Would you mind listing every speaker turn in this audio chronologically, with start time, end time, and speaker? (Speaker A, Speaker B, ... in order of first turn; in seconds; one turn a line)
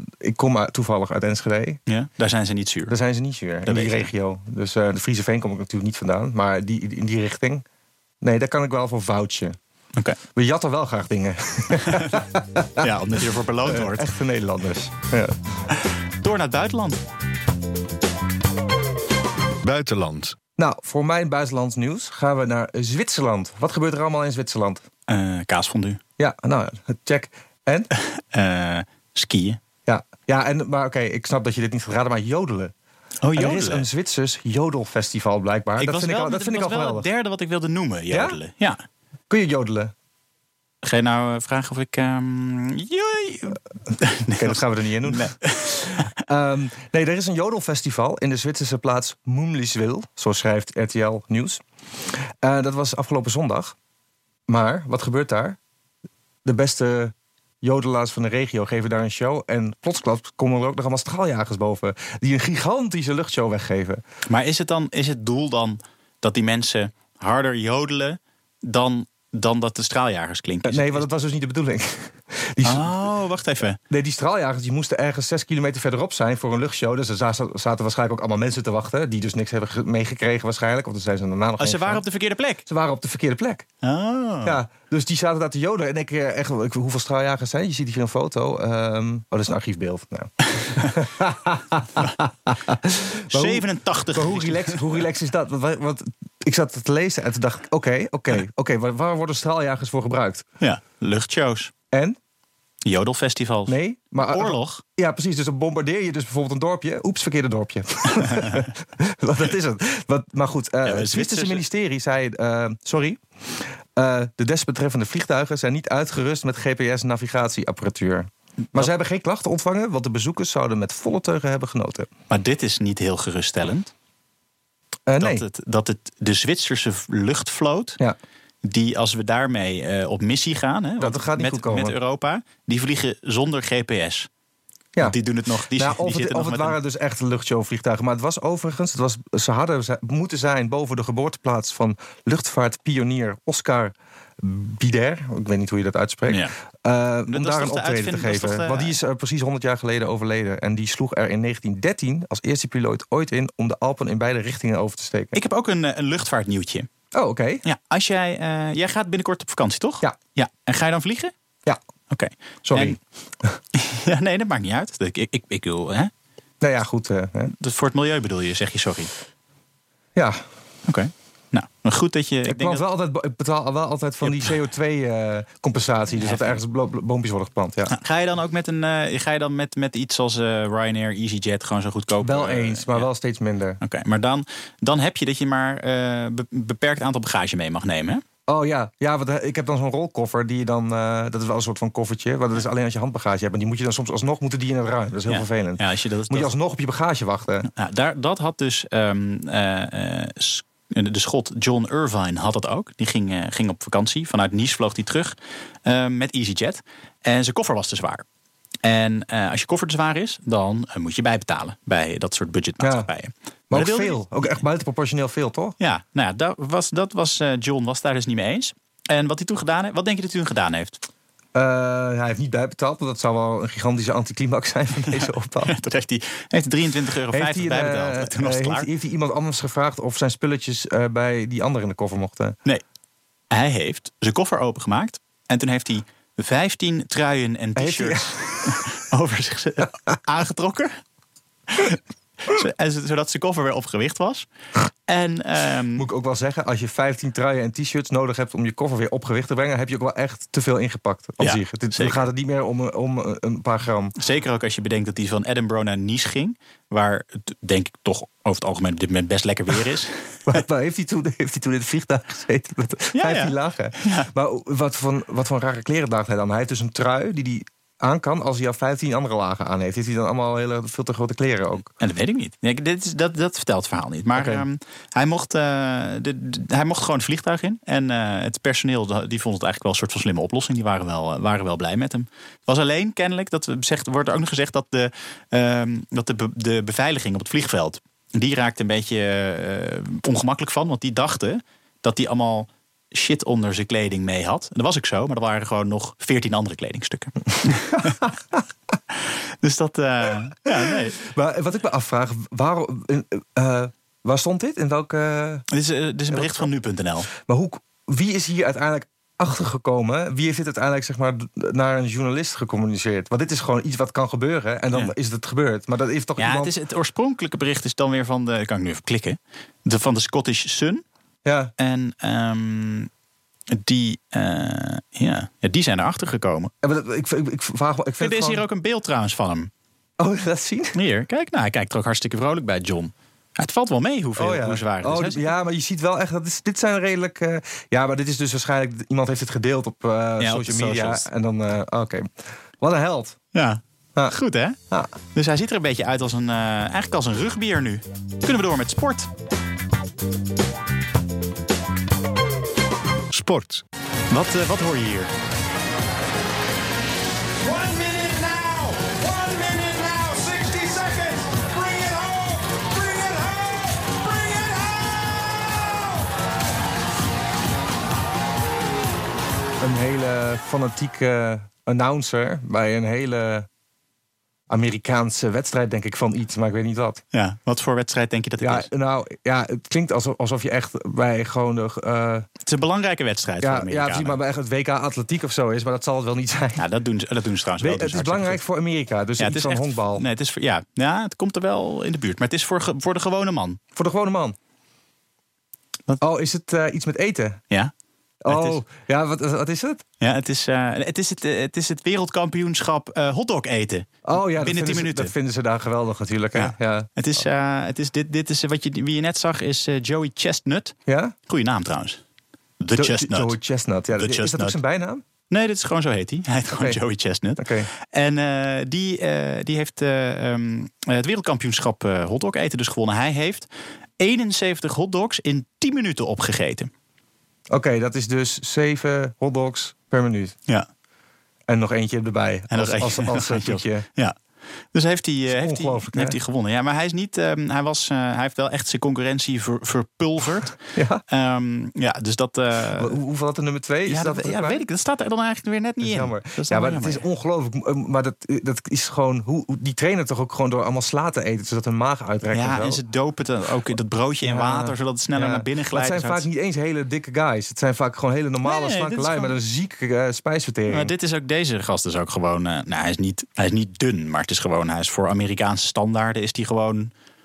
Speaker A: 0.2-1.8
Speaker B: 1.9-2.9
Speaker A: 2.9-7.6
Speaker B: 3.6-4.1
Speaker A: 8.2-9.6
Speaker A: 10.3-12.9
Speaker B: 11.8-12.2
Speaker B: 12.8-14.1
Speaker A: 13.6-15.3
Speaker B: 15.7-17.0
Speaker C: 19.6-20.4
Speaker A: 20.6-24.8
Speaker B: 25.1-26.0
Speaker A: 26.2-27.9
Speaker B: 27.9-29.6
Speaker A: 29.9-32.7
Speaker B: 33.2-33.9
Speaker A: 33.3-37.0
Speaker B: 35.8-38.8
Speaker A: 38.1-38.4
Speaker A: 39.3-39.9
Speaker B: 40.8-46.1
Speaker A: 44.3-51.6
Speaker A: 52.1-53.7
Speaker A: 54.5-55.6
Speaker A: 56.4-64.0
Speaker B: 64.3-71.0
Speaker A: 70.6-72.9
Speaker B: 72.6-73.8
Speaker A: 73.9-82.0
Speaker B: 81.6-82.6
Speaker A: 82.7-83.7
Speaker B: 83.8-84.6
Speaker A: 84.4-100.4
Speaker B: 90.6-90.9
Speaker B: 93.3-94.8
Speaker B: 100.6-101.7
Speaker A: 101.9-102.2
Speaker B: 102.8-104.8
Speaker A: 103.7-122.1
Speaker B: 108.1-108.7
Speaker B: 110.8-111.6
Speaker B: 122.3-123.9
Speaker A: 125.1-125.4
Speaker B: 125.2-128.0
Speaker B: 128.6-134.3
Speaker A: 131.0-131.9
Speaker A: 134.9-155.3
Speaker B: 135.0-136.8
Speaker B: 147.3-149.0
Speaker B: 155.3-156.9
Speaker A: 157.1-157.6
Speaker B: 157.6-161.3
Speaker B: 162.1-163.0
Speaker A: 162.6-163.5
Speaker B: 163.7-166.1
Speaker A: 166.6-167.5
Speaker B: 167.5-169.1
Speaker A: 170.1-170.4
Speaker B: 170.9-172.8
Speaker A: 172.4-177.9
Speaker B: 174.2-174.5
Speaker B: 176.2-176.6
Speaker B: 177.9-183.1
Speaker A: 182.2-183.8
Speaker B: 183.8-188.2
Speaker A: 188.5-197.7
Speaker B: 195.3-196.5
Speaker B: 197.6-208.2
Speaker B: 208.8-214.6
Speaker A: 212.8-213.1
Speaker A: 213.7-215.8
Speaker B: 215.8-221.0
Speaker A: 221.5-225.7
Speaker B: 225.1-228.9
Speaker A: 227.3-232.6
Speaker B: 233.5-241.0
Speaker A: 237.8-238.8
Speaker B: 241.7-244.5
Speaker B: 245.1-246.1
Speaker A: 245.9-254.1
Speaker B: 251.4-252.2
Speaker B: 254.2-260.4
Speaker A: 260.5-271.9
Speaker B: 263.1-264.3
Speaker B: 271.9-298.2
Speaker A: 274.3-274.6
Speaker A: 298.0-298.6
Speaker B: 299.6-301.2
Speaker A: 300.7-305.6
Speaker B: 305.7-307.3
Speaker A: 306.3-306.7
Speaker A: 307.3-316.7
Speaker B: 316.4-321.0
Speaker A: 321.4-321.7
Speaker B: 321.8-323.1
Speaker B: 323.7-326.7
Speaker A: 326.8-328.6
Speaker B: 328.2-329.7
Speaker A: 330.2-331.0
Speaker B: 330.9-335.5
Speaker A: 334.4-342.3
Speaker B: 340.4-341.3
Speaker A: 342.8-343.4
Speaker B: 343.5-344.8
Speaker B: 345.3-349.3
Speaker C: 353.3-353.8
Speaker B: 354.3-355.3
Speaker C: 357.6-366.3
Speaker A: 369.8-373.7
Speaker A: 374.7-377.2
Speaker B: 377.3-378.9
Speaker A: 378.6-382.5
Speaker B: 382.6-384.4
Speaker A: 383.6-386.8
Speaker B: 386.8-388.6
Speaker A: 387.8-390.2
Speaker B: 389.4-393.8
Speaker A: 393.9-394.6
Speaker A: 396.2-397.6
Speaker A: 398.4-400.0
Speaker B: 398.5-398.8
Speaker B: 400.2-405.3
Speaker A: 404.2-407.1
Speaker B: 406.5-410.9
Speaker A: 411.1-411.3
Speaker B: 411.5-412.2
Speaker B: 412.8-413.5
Speaker A: 413.0-415.2
Speaker B: 414.1-414.8
Speaker B: 415.5-423.7
Speaker A: 416.7-417.0
Speaker A: 417.6-417.9
Speaker B: 424.2-426.9
Speaker A: 427.7-430.6
Speaker A: 431.7-434.1
Speaker B: 432.7-434.4
Speaker B: 434.9-440.8
Speaker A: 435.5-436.4
Speaker A: 440.9-441.2
Speaker B: 441.3-443.2
Speaker A: 443.0-444.8
Speaker B: 444.1-447.2
Speaker A: 446.0-453.0
Speaker B: 452.5-456.4
Speaker A: 454.4-461.1
Speaker B: 458.6-459.5
Speaker B: 460.9-467.1